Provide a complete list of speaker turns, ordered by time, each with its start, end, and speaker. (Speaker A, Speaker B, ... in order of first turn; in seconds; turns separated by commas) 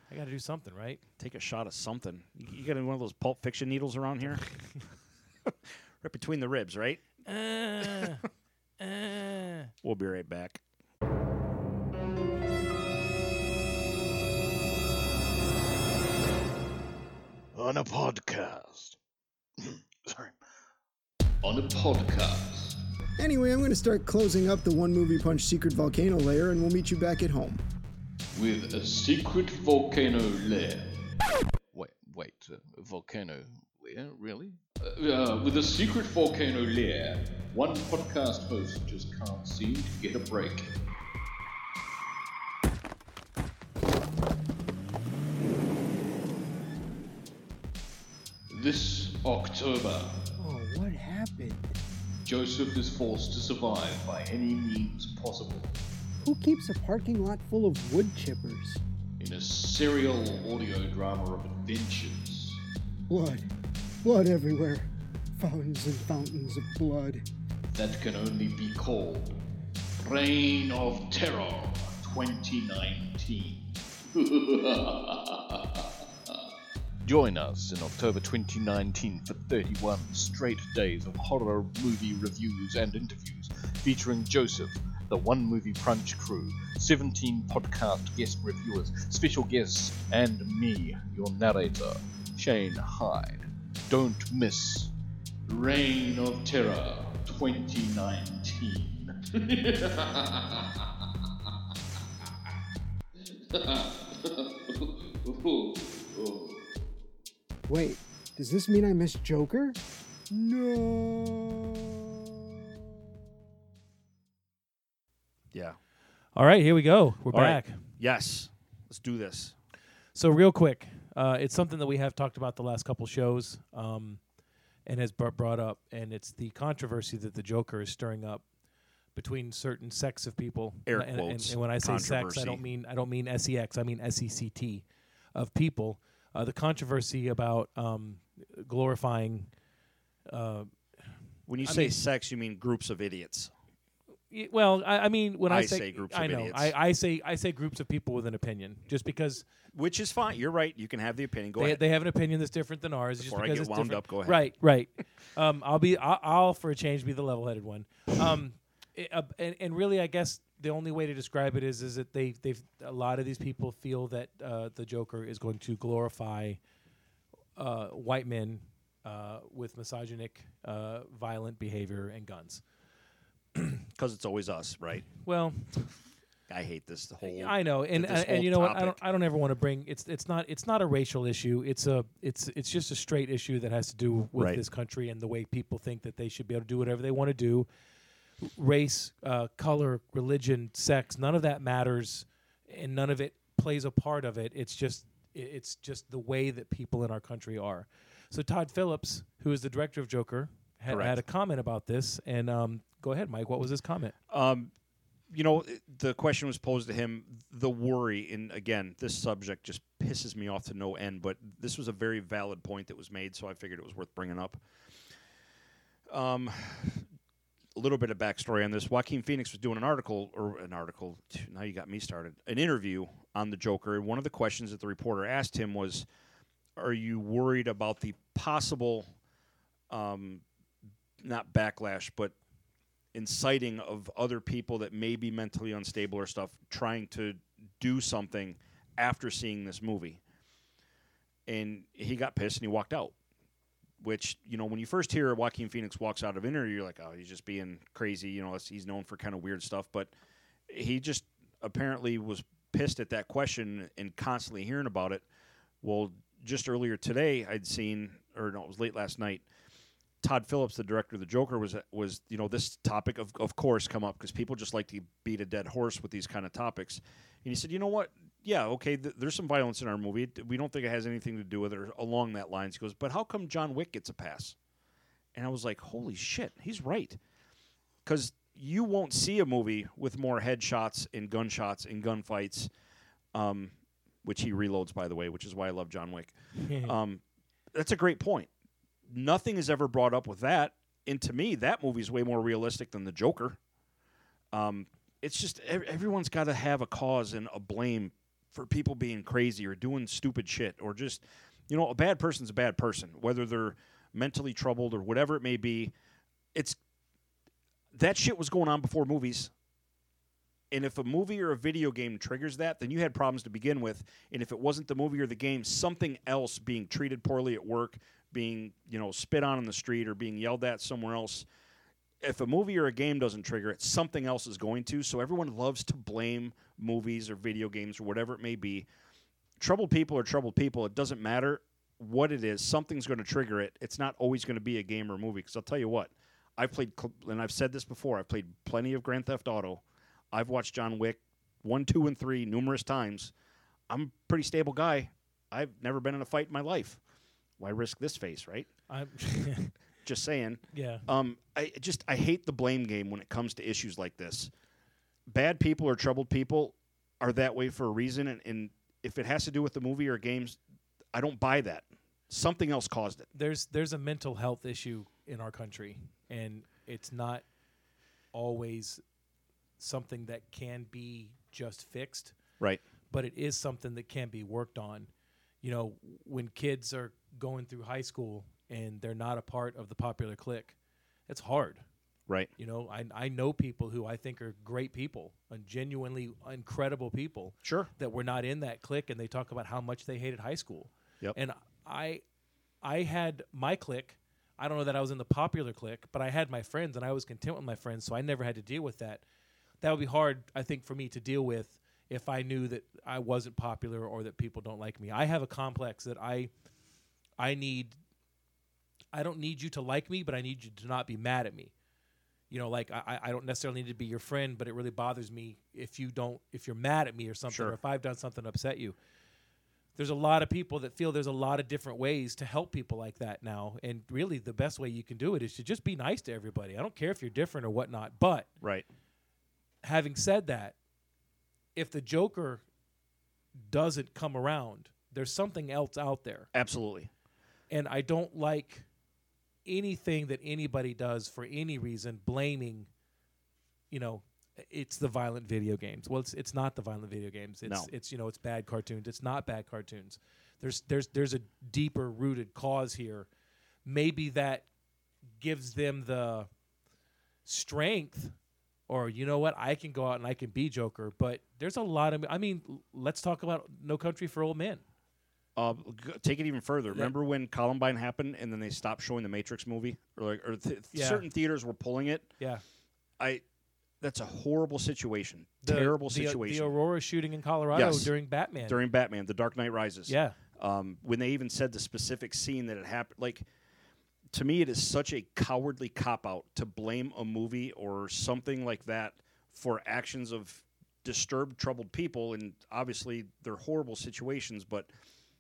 Speaker A: 0.1-1.0, Speaker B: 1.2-4.5, Speaker B: 5.5-7.0, Speaker A: 7.2-8.2, Speaker A: 8.8-9.7, Speaker B: 9.8-10.6, Speaker C: 17.5-19.0, Speaker C: 19.6-20.4, Speaker C: 21.4-22.8, Speaker D: 23.2-27.6, Speaker C: 28.3-30.9, Speaker C: 31.7-40.7, Speaker C: 48.5-50.1, Speaker D: 50.4-51.8, Speaker C: 52.2-55.8, Speaker D: 56.2-58.8, Speaker C: 59.2-62.6, Speaker D: 63.1-63.5, Speaker D: 64.0-67.2, Speaker C: 67.7-69.4, Speaker C: 70.0-76.4, Speaker C: 77.0-94.9, Speaker C: 95.5-100.7, Speaker C: 103.3-106.6, Speaker D: 107.7-109.8, Speaker D: 110.3-112.4, Speaker B: 115.5-115.8, Speaker A: 116.3-117.8, Speaker B: 117.3-119.5, Speaker A: 120.2-124.2, Speaker A: 124.9-128.4, Speaker A: 129.2-139.5, Speaker B: 130.9-132.6, Speaker A: 140.3-140.7, Speaker B: 141.5-143.5, Speaker A: 141.6-142.0, Speaker A: 144.3-149.4, Speaker B: 145.5-146.7, Speaker B: 149.7-151.8, Speaker A: 151.6-166.6, Speaker B: 153.2-154.4, Speaker A: 167.6-172.6, Speaker B: 173.8-175.1, Speaker A: 175.1-175.7, Speaker B: 176.5-179.0, Speaker A: 177.2-187.7, Speaker B: 184.4-184.6, Speaker A: 188.4-204.2, Speaker B: 200.9-201.2, Speaker B: 204.3-204.7, Speaker B: 205.3-214.6, Speaker B: 216.1-217.0, Speaker B: 217.8-226.1, Speaker B: 226.8-229.1, Speaker B: 229.9-230.4, Speaker B: 231.2-232.3, Speaker B: 233.1-240.2, Speaker B: 241.5-243.1, Speaker B: 244.0-250.1, Speaker B: 250.7-255.2, Speaker B: 255.8-259.4, Speaker B: 260.2-274.6, Speaker B: 275.4-277.2, Speaker B: 278.1-282.7, Speaker B: 283.3-283.7, Speaker B: 284.2-287.2, Speaker A: 286.6-286.9, Speaker B: 287.7-288.5, Speaker B: 289.1-293.6, Speaker B: 294.5-305.9, Speaker B: 307.9-309.5, Speaker B: 310.7-321.5, Speaker B: 322.2-328.9, Speaker B: 329.6-343.3, Speaker B: 343.9-347.0, Speaker B: 347.6-348.7, Speaker A: 348.9-349.7, Speaker B: 350.1-354.5, Speaker A: 350.7-351.1, Speaker B: 355.3-360.6, Speaker B: 361.1-363.3, Speaker A: 363.3-367.4, Speaker A: 368.3-369.0, Speaker A: 369.8-372.4, Speaker A: 373.1-375.1, Speaker A: 375.6-380.8, Speaker A: 381.3-381.8, Speaker A: 382.6-392.2, Speaker B: 387.6-387.9, Speaker A: 392.8-399.2, Speaker A: 399.8-406.5, Speaker A: 407.4-408.0, Speaker A: 409.1-411.7, Speaker A: 412.5-419.0, Speaker B: 417.5-417.8, Speaker A: 420.0-428.5, Speaker B: 428.6-428.9, Speaker A: 429.8-430.8, Speaker A: 431.8-432.6, Speaker A: 433.6-436.5, Speaker B: 436.5-437.1, Speaker A: 437.7-438.9, Speaker A: 439.6-442.9, Speaker A: 443.9-453.3, Speaker B: 447.6-447.9, Speaker A: 453.9-454.7, Speaker A: 455.4-456.5, Speaker A: 457.4-458.4, Speaker A: 458.9-464.8, Speaker B: 465.6-472.3, Speaker A: 470.9-471.3, Speaker B: 474.0-476.8, Speaker A: 475.6-478.8, Speaker B: 477.7-478.1, Speaker B: 478.6-483.5, Speaker A: 480.1-480.4, Speaker B: 484.3-494.9